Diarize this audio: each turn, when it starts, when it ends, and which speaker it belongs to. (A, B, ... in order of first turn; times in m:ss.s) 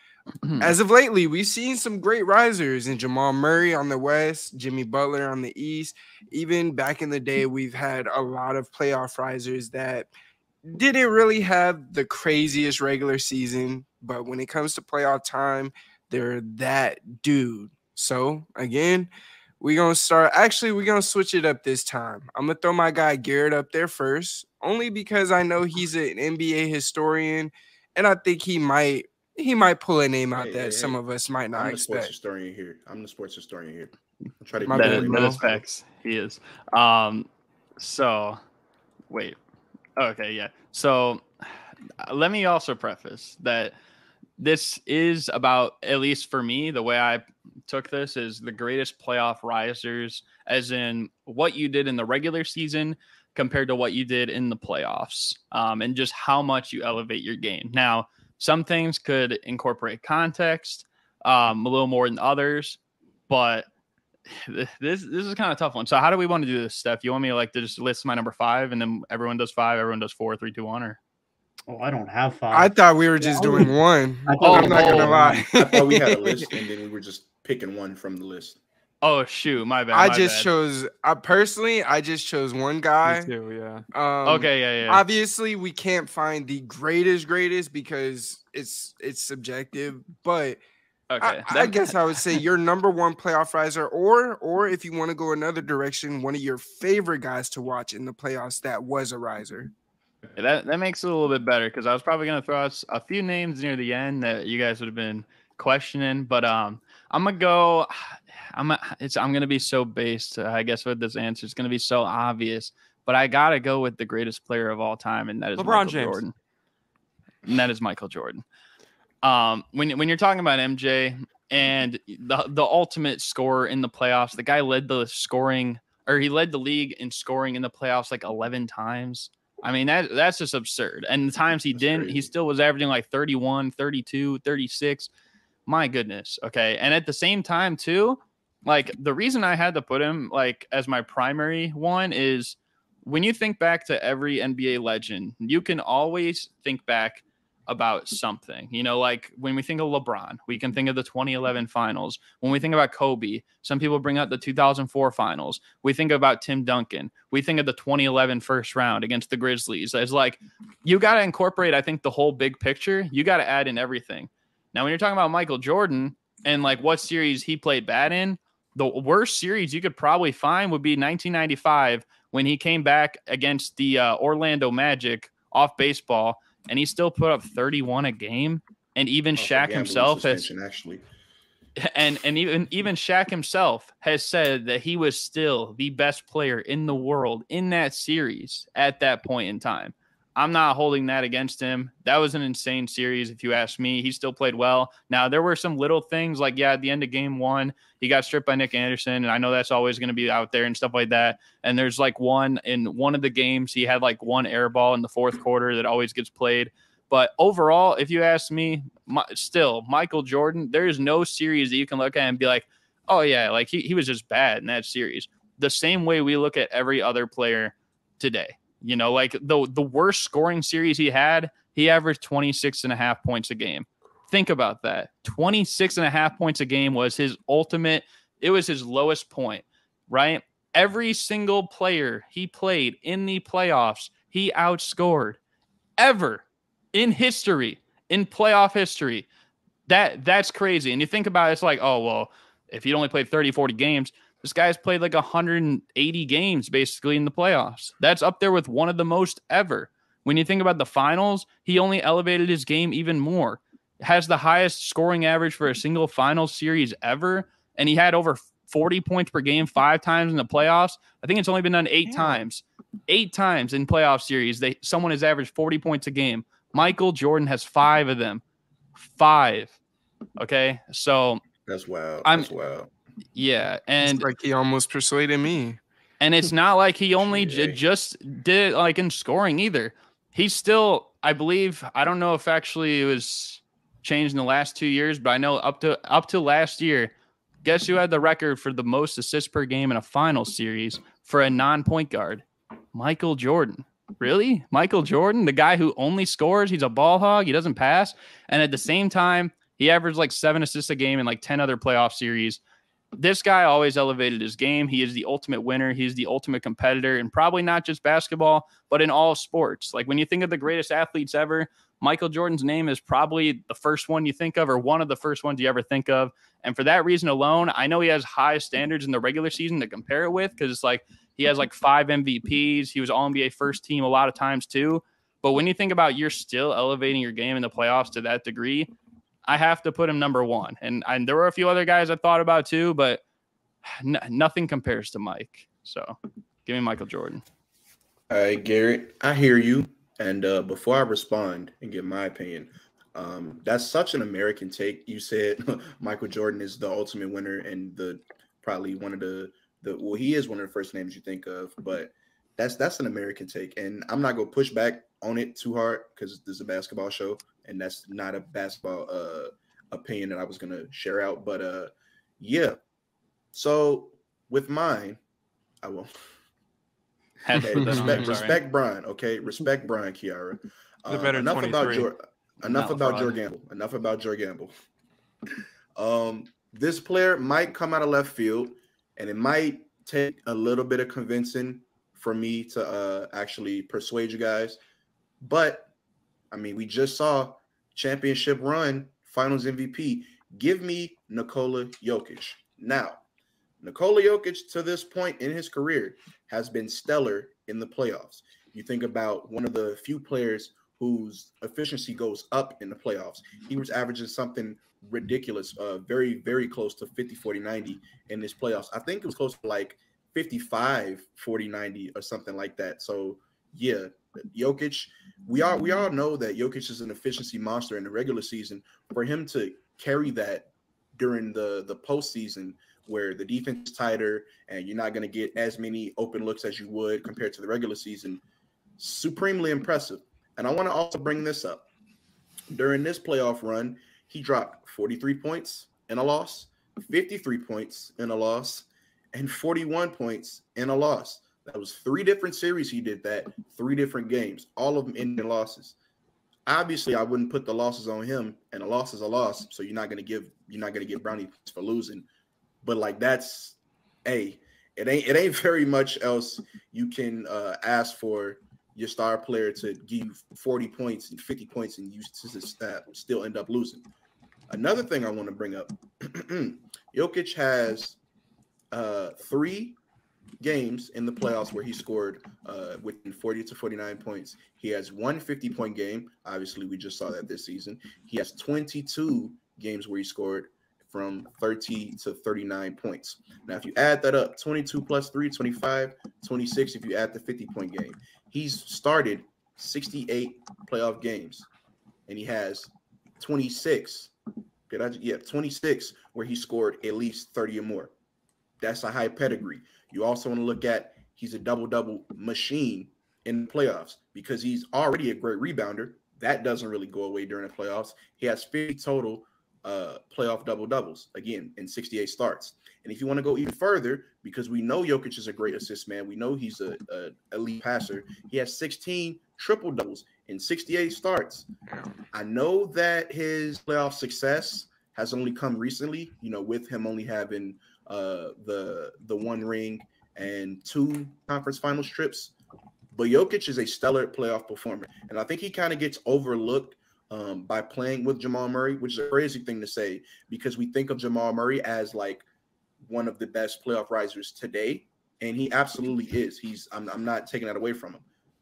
0:00.4-0:00.7 A
0:00.6-0:10.1 B
0:10.6-0:19.1 B
0:19.6-0:32.1 B
0:30.4-0:31.0 C
0:31.6-0:35.6 C
0:34.6-0:35.4 B
0:34.7-0:38.4 A
0:39.1-0:39.4 A
0:40.0-0:43.7 A
0:44.4-1:03.7 A
1:04.3-1:11.0 A
1:11.7-1:13.7 D
1:12.5-1:16.5 B
1:14.3-1:15.5 D
1:14.4-1:15.2 A
1:15.5-1:18.6 C
1:19.0-1:20.5 A
1:19.9-1:23.3 B
1:23.0-1:23.8 E
1:23.9-1:30.6 B
1:24.2-1:25.0 A
1:31.1-1:32.4 A
1:31.2-1:39.7 B
1:40.4-1:56.3 A
1:55.6-1:56.2 E
1:57.4-1:58.4 A
1:59.2-2:15.1 A
2:11.7-2:12.3 C
2:15.7-3:00.5 A
2:59.4-3:01.0 C
3:01.8-3:55.4 A
3:56.0-3:59.3 A
3:59.9-4:28.4 A
4:29.0-4:29.8 A
4:30.4-4:31.4 A
4:31.6-4:32.9 C
4:32.2-4:32.5 A
4:33.3-4:34.3 A
4:34.0-4:35.8 B
4:36.2-4:47.1 A
4:37.2-4:37.8 C
4:47.6-5:02.6 A
5:03.2-5:28.9 A
5:29.4-5:33.2 A
5:33.8-5:37.4 A
5:38.3-6:02.8 C
6:03.5-6:05.2 C
6:05.8-6:06.1 C
6:07.4-6:08.6 A
6:07.6-6:14.7 C
6:07.8-6:08.2 B
6:11.1-6:12.1 E
6:12.6-6:13.4 A
6:16.0-6:24.8 C
6:25.4-6:25.9 C
6:26.5-6:33.2 C
6:33.8-7:08.4 C
7:09.0-7:11.9 C
7:12.7-7:25.9 C
7:26.7-7:32.2 C
7:32.8-7:44.0 C
7:44.7-7:48.2 C
7:48.9-7:50.0 C
7:50.6-8:11.7 C
8:12.3-8:14.3 C
8:14.9-8:18.1 C
8:18.8-8:41.7 C
8:41.9-8:42.2 B
8:42.3-8:52.5 C
8:53.1-9:02.4 C
9:03.0-9:08.2 C